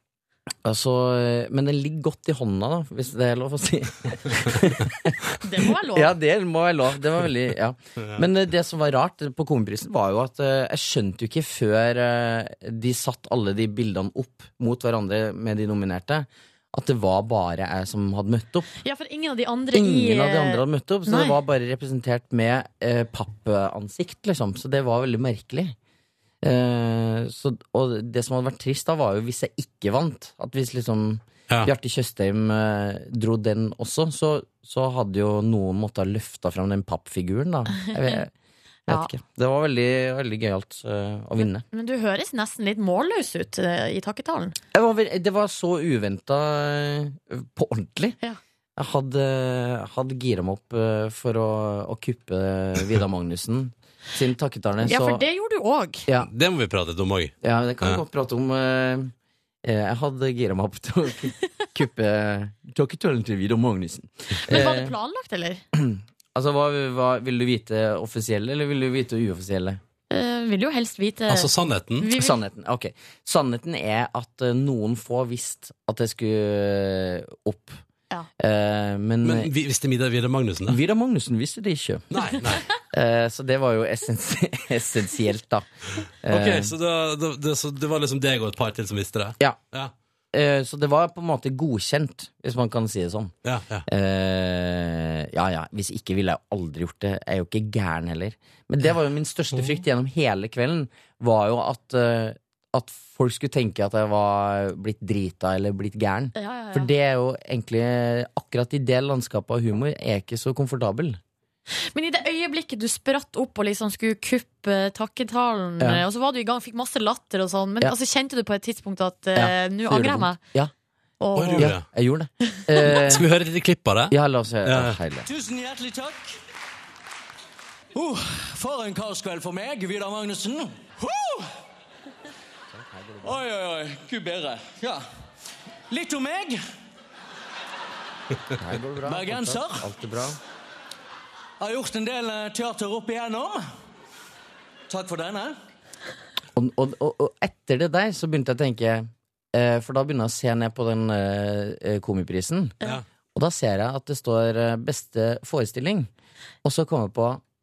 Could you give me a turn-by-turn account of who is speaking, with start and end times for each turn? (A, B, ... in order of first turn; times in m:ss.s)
0:00.6-0:05.2 A
0:05.4-0:06.1 B
0:05.9-0:18.7 A
0:18.8-0:21.4 B
0:19.7-0:25.7 A
0:26.4-0:38.3 A
0:37.7-0:38.2 B
0:38.9-0:41.6 A
0:41.7-0:44.6 B
0:44.7-0:48.2 A
0:48.8-0:55.2 A
0:54.8-0:56.0 B
0:56.2-0:58.0 C
0:57.4-0:59.1 A
0:59.6-1:04.9 A
1:04.4-1:05.6 B
1:05.7-1:09.8 A
1:10.1-1:12.4 B
1:11.3-1:12.1 C
1:12.1-1:17.8 A
1:18.4-1:19.5 A
1:19.2-1:20.8 C
1:20.7-1:22.3 A
1:22.1-1:22.6 C
1:22.9-1:25.7 A
1:26.2-1:26.7 A
1:26.3-1:29.9 C
1:30.3-1:33.3 A
1:33.4-1:33.8 C
1:33.8-1:51.2 A
1:46.3-1:46.9 B
1:51.9-2:00.4 B
1:59.3-2:00.7 A
2:01.2-2:01.8 B
2:01.3-2:01.8 C
2:01.6-2:03.3 A
2:02.9-2:05.0 C
2:04.1-2:05.3 A
2:05.2-2:06.3 D
2:07.9-2:11.5 D
2:12.7-2:13.4 A
2:13.2-2:15.0 D
2:15.9-2:16.6 D
2:18.6-2:20.4 A
2:19.0-2:19.9 D
2:21.6-2:23.6 D
2:24.9-2:25.6 D
2:26.6-2:32.7 A
2:33.3-2:36.1 A
2:36.6-2:37.4 A